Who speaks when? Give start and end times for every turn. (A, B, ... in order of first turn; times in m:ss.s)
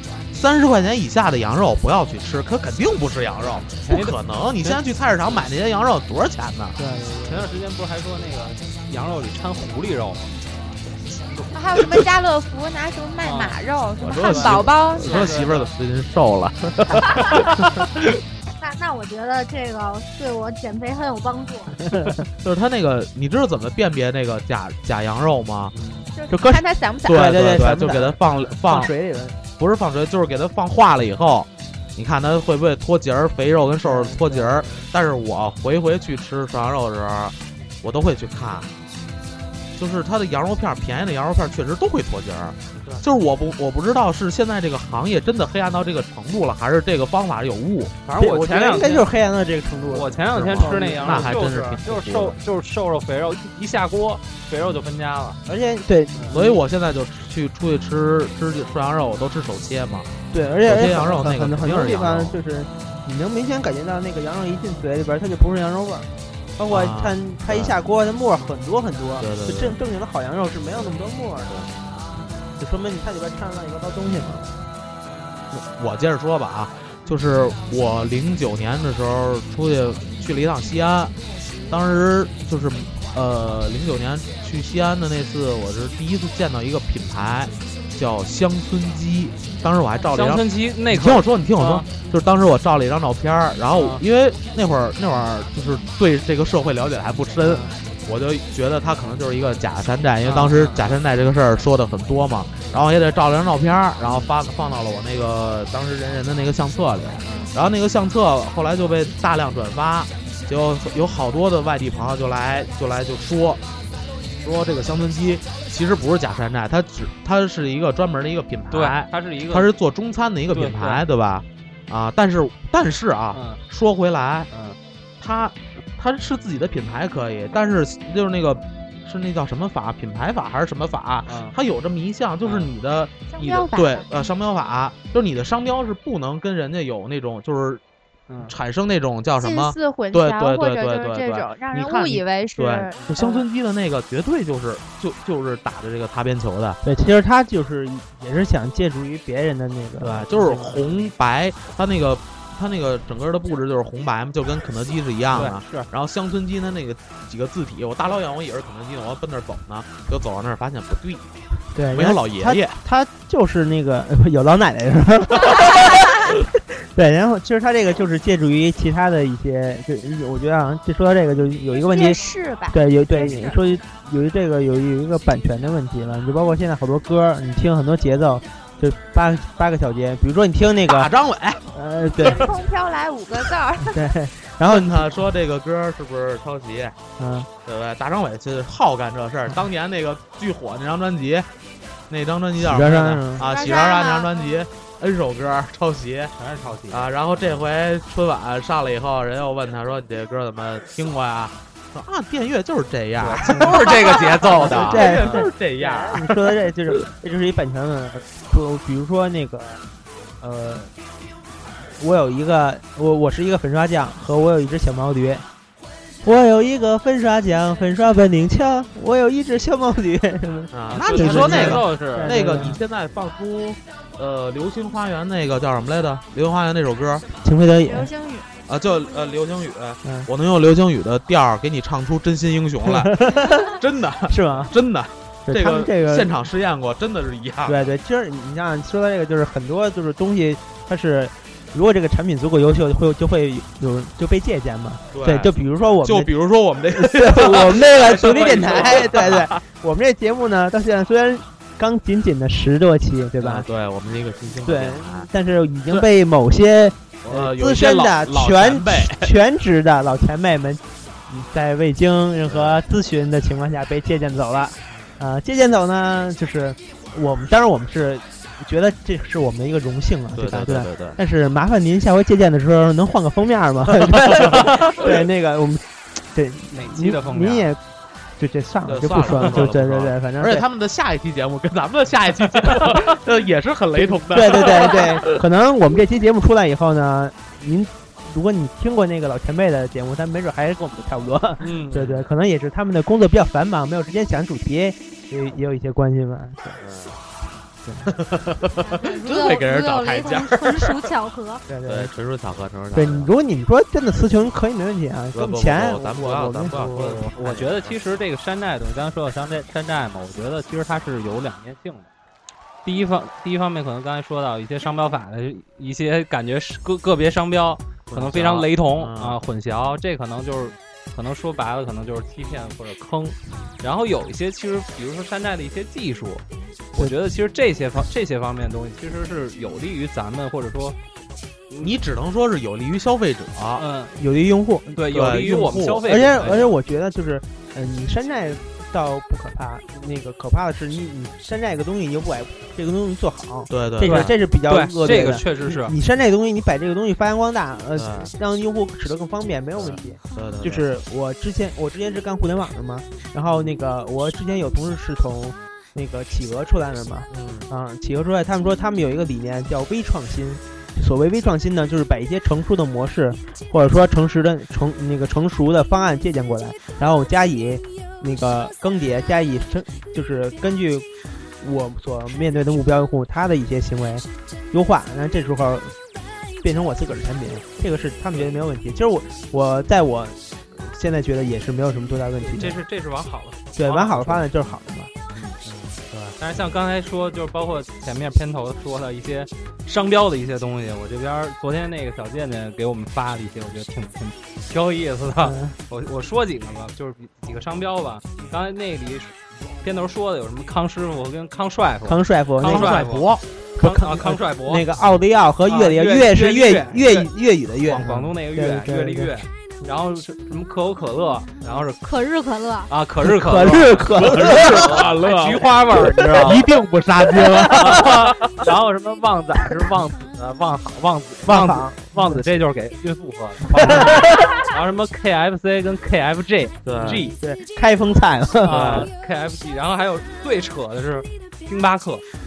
0:00.3-0:06.8 A
0:03.7-0:04.8 B
0:06.8-0:07.5 C
0:07.2-0:10.7 B
0:11.5-0:15.3 D
0:13.2-0:13.6 B
0:14.0-0:18.2 A
0:14.2-0:15.7 B
0:18.6-0:21.8 E
0:21.9-0:22.2 C
0:22.4-0:25.7 A
0:25.7-0:26.1 B
0:26.1-0:27.2 D
0:26.3-0:29.4 C
0:27.1-0:28.9 A
0:29.4-0:38.7 A
0:33.8-0:34.8 C
0:39.8-0:48.0 A
0:48.0-0:49.1 B
0:48.2-0:51.4 C
0:49.9-0:55.4 B
0:50.3-0:52.4 A
0:55.4-0:56.6 C
0:56.3-1:00.1 A
1:00.3-1:11.6 C
1:00.6-1:02.4 A
1:06.7-1:07.8 A
1:09.2-1:09.8 A
1:12.6-1:14.5 C
1:14.1-1:14.4 A
1:15.5-1:21.1 A
1:21.7-1:53.6 A
1:30.1-1:31.9 B
1:33.7-1:34.0 B
1:37.4-1:37.7 B
1:40.2-1:41.0 B
1:44.0-1:44.3 B
1:47.2-1:47.5 B
1:54.4-2:04.5 A
1:58.7-1:59.7 B
2:00.5-2:01.0 B
2:03.3-2:03.6 B
2:04.5-2:04.8 B
2:05.2-2:17.8 A
2:11.3-2:11.5 B
2:12.4-2:12.7 B
2:13.2-2:14.2 D
2:18.5-2:26.8 A
2:19.4-2:23.4 D
2:26.8-2:30.8 C
2:30.0-2:41.3 A
2:35.3-2:35.9 B
2:41.7-3:01.1 C
2:41.9-2:42.8 A
2:51.8-2:53.6 D
3:00.9-3:01.6 A
3:01.7-3:02.5 C
3:02.3-3:04.0 D
3:03.8-3:05.2 C
3:04.7-3:06.9 A
3:07.2-3:07.5 C
3:07.6-3:11.5 A
3:12.1-3:16.3 A
3:12.6-3:13.5 C
3:13.4-3:14.4 D
3:16.4-3:17.1 B
3:16.9-3:26.5 A
3:23.2-3:25.5 B
3:24.5-3:29.8 C
3:30.4-3:30.9 C
3:32.0-3:35.4 C
3:36.2-3:42.8 C
3:40.7-3:47.2 A
3:40.9-3:42.4 B
3:47.4-3:48.1 C
3:47.8-3:48.5 D
3:48.7-3:53.2 A
3:52.8-3:53.7 C
3:53.7-3:57.8 A
3:54.3-3:54.7 C
3:55.5-3:56.3 C
3:57.6-4:06.3 C
4:05.1-4:09.6 A
4:06.9-4:13.7 C
4:13.4-4:15.3 A
4:14.6-4:37.8 C
4:17.2-4:19.3 A
4:22.5-4:22.8 A
4:30.4-4:31.2 A
4:34.4-4:34.8 A
4:36.7-4:37.7 B
4:38.4-4:40.6 C
4:38.8-4:45.4 A
4:44.0-4:56.8 C
4:51.6-4:52.0 B
4:51.9-4:52.2 A
4:56.8-4:57.2 A
4:57.8-4:58.1 C
4:58.1-5:01.1 A
4:58.8-5:01.6 E
5:01.7-5:02.1 C
5:01.8-5:03.3 A
5:02.9-5:06.8 C
5:05.3-5:08.0 A
5:06.7-5:12.1 B
5:12.8-5:26.4 B
5:18.1-5:19.4 A
5:26.9-5:31.0 B
5:31.8-5:33.8 A
5:33.8-5:34.2 B
5:34.2-5:35.0 C
5:34.9-5:36.7 B
5:35.1-5:36.1 A
5:36.0-6:11.1 C
5:43.7-5:44.4 A
5:44.0-5:45.9 B
5:47.9-5:48.3 A
5:49.8-5:50.8 A
5:57.3-5:57.7 A
6:11.6-6:15.9 C
6:16.6-6:22.8 C
6:22.4-6:24.5 B
6:23.8-6:25.1 C
6:25.3-6:44.8 B
6:35.4-6:35.8 C
6:42.1-6:43.0 C
6:42.6-6:43.4 A
6:43.8-6:49.3 C
6:45.6-6:47.3 B
6:47.8-6:52.0 B
6:52.0-6:52.9 E
6:52.9-6:56.7 B
6:53.2-6:54.9 C
6:54.1-6:58.6 A
6:57.7-7:07.4 B
7:01.5-7:02.4 C
7:03.8-7:04.5 C
7:06.8-7:07.3 A
7:07.3-7:09.0 C
7:08.6-7:12.2 B
7:08.7-7:09.1 A